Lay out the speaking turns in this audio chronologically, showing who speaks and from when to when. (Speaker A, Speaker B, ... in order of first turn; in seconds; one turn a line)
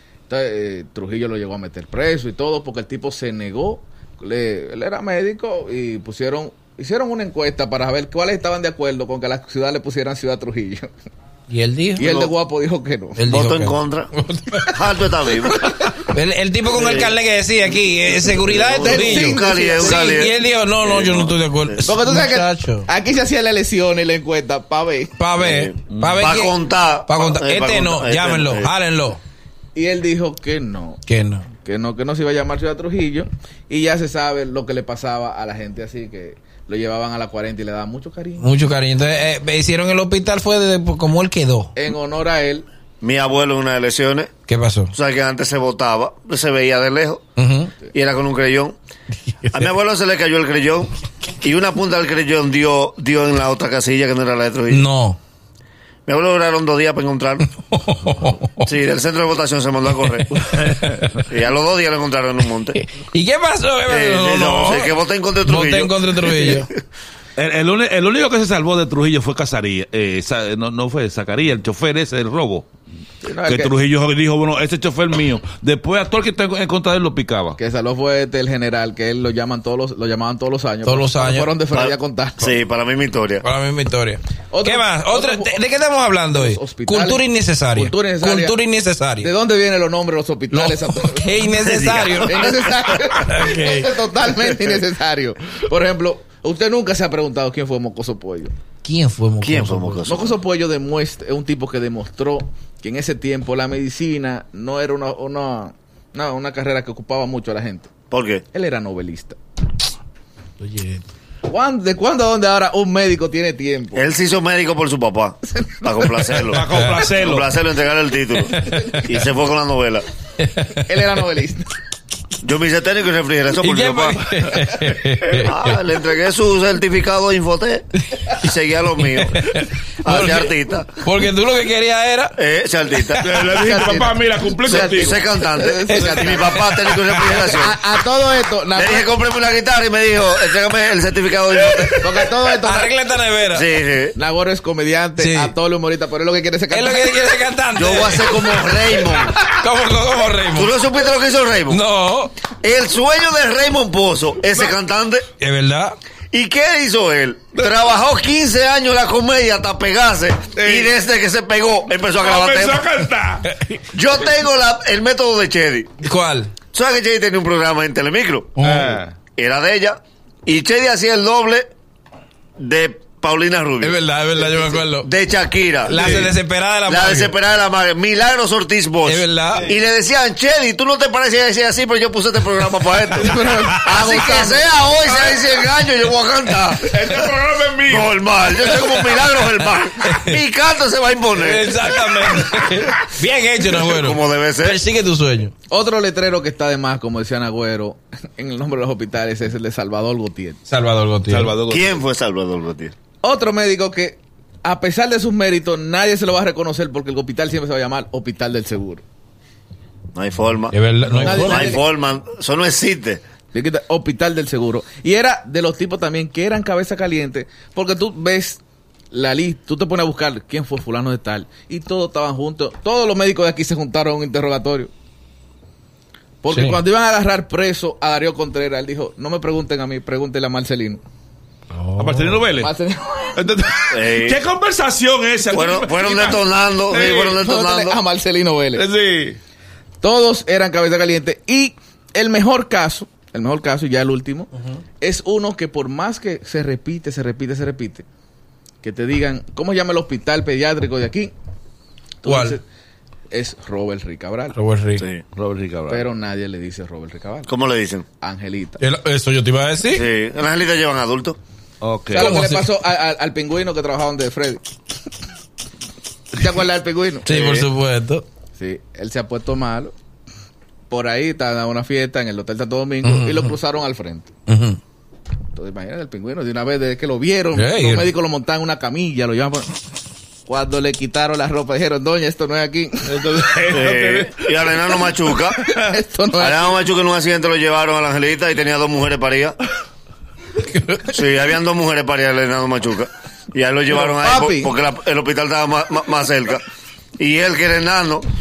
Speaker A: 0.3-10.9
Speaker B: 11.5-12.3
Speaker A: 12.0-13.2
Speaker B: 13.2-14.7
Speaker C: 13.3-14.1
Speaker C: 14.7-15.6
Speaker B: 15.7-22.9
Speaker C: 16.7-17.2
Speaker C: 18.4-21.8
Speaker A: 18.8-20.1
Speaker A: 21.8-25.1
Speaker B: 25.2-29.2
Speaker C: 25.4-28.7
Speaker D: 25.9-26.2
Speaker A: 29.7-31.0
Speaker B: 31.1-31.5
Speaker A: 31.6-38.5
Speaker B: 38.4-41.7
Speaker A: 41.7-42.6
Speaker C: 43.0-44.3
Speaker B: 44.5-44.9
Speaker C: 44.9-47.2
Speaker B: 47.4-47.7
Speaker C: 47.9-48.8
Speaker B: 49.3-49.7
Speaker C: 49.5-54.8
Speaker B: 54.7-55.2
Speaker C: 56.0-57.5
Speaker B: 57.6-58.7
Speaker C: 58.6-60.4
Speaker B: 60.2-61.2
Speaker D: 60.4-61.0
Speaker C: 61.3-62.8
Speaker B: 62.7-66.7
Speaker C: 63.9-66.6
Speaker D: 67.3-72.7
Speaker A: 73.2-73.7
Speaker D: 73.4-77.6
Speaker A: 77.6-82.6
Speaker B: 80.8-81.5
Speaker C: 81.7-83.4
Speaker B: 83.4-89.3
Speaker A: 84.5-85.6
Speaker A: 86.3-88.6
Speaker A: 89.2-91.5
Speaker B: 90.5-92.5
Speaker C: 91.6-93.0
Speaker A: 92.2-98.5
Speaker B: 93.2-94.0
Speaker B: 98.8-100.0
Speaker C: 99.4-100.4
Speaker A: 100.0-107.9
Speaker C: 108.1-108.4
Speaker A: 108.5-109.4
Speaker B: 110.6-111.0
Speaker A: 111.5-114.0
Speaker C: 113.9-120.0
Speaker A: 115.5-116.4
Speaker D: 116.5-117.5
Speaker B: 118.5-119.1
Speaker B: 120.4-120.9
Speaker A: 120.8-121.7
Speaker C: 122.4-124.2
Speaker B: 123.6-125.8
Speaker C: 125.3-129.5
Speaker B: 128.1-128.4
Speaker B: 129.0-132.4
Speaker C: 130.0-131.0
Speaker C: 132.3-133.2
Speaker D: 133.2-135.2
Speaker A: 133.3-136.6
Speaker C: 134.7-137.8
Speaker B: 135.9-137.4
Speaker A: 137.3-139.1
Speaker C: 138.7-142.3
Speaker A: 142.0-142.9
Speaker B: 142.6-143.7
Speaker C: 143.5-144.2
Speaker A: 144.1-147.2
Speaker B: 145.2-145.5
Speaker B: 146.7-150.7
Speaker C: 147.8-149.4
Speaker C: 150.5-151.8
Speaker B: 151.7-152.3
Speaker C: 152.6-155.3
Speaker B: 155.4-156.0
Speaker C: 156.3-162.9
Speaker D: 160.6-160.9
Speaker D: 162.2-163.4
Speaker B: 163.5-163.8
Speaker C: 163.9-165.9
Speaker B: 166.0-166.5
Speaker C: 166.7-168.5
Speaker B: 168.6-169.0
Speaker D: 168.6-169.2
Speaker C: 169.3-171.7
Speaker C: 172.6-174.0
Speaker B: 173.8-175.1
Speaker C: 175.0-176.3
Speaker B: 175.8-177.3
Speaker D: 175.9-176.3
Speaker C: 176.9-187.3
Speaker B: 179.0-179.7
Speaker A: 183.2-184.7
Speaker B: 183.7-184.1
Speaker D: 185.1-185.4
Speaker D: 186.8-188.2
Speaker C: 187.9-191.7
Speaker B: 188.6-190.4
Speaker B: 191.3-195.5
Speaker C: 193.7-194.8
Speaker A: 195.7-200.6
Speaker B: 200.7-201.5
Speaker D: 201.3-202.0
Speaker C: 201.7-202.9
Speaker A: 203.2-209.0
Speaker C: 210.1-213.2
Speaker B: 210.7-211.8
Speaker A: 211.1-211.8
Speaker A: 213.5-218.6
Speaker A: 219.1-224.9
Speaker A: 226.4-231.0
Speaker B: 226.5-226.8
Speaker B: 231.7-232.4
Speaker D: 232.0-232.7
Speaker A: 232.6-233.4
Speaker D: 233.3-236.4
Speaker C: 233.9-234.4
Speaker C: 235.5-238.0
Speaker A: 236.9-238.8
Speaker D: 238.7-239.4
Speaker A: 240.0-248.1
Speaker A: 248.8-251.3
Speaker A: 252.2-252.6
Speaker B: 252.2-252.6
Speaker A: 253.3-254.6
Speaker B: 254.5-255.0
Speaker C: 255.0-255.2
Speaker D: 255.3-256.0
Speaker A: 255.9-257.5
Speaker C: 257.5-258.0
Speaker A: 258.2-258.8
Speaker B: 258.8-260.1
Speaker C: 259.9-261.4
Speaker D: 261.8-262.3
Speaker A: 262.1-264.6
Speaker B: 262.1-262.6
Speaker A: 266.3-267.3
Speaker B: 267.2-268.2
Speaker A: 268.5-269.9
Speaker A: 270.9-274.3
Speaker B: 273.0-273.5
Speaker B: 274.5-274.8
Speaker A: 275.5-279.7
Speaker B: 277.5-278.1
Speaker A: 280.5-283.2
Speaker D: 283.1-284.7
Speaker C: 283.7-285.6
Speaker A: 285.6-286.8
Speaker D: 285.6-285.9
Speaker C: 286.4-289.6
Speaker B: 290.6-291.1
Speaker C: 291.1-296.6
Speaker A: 293.9-294.7
Speaker C: 297.2-298.3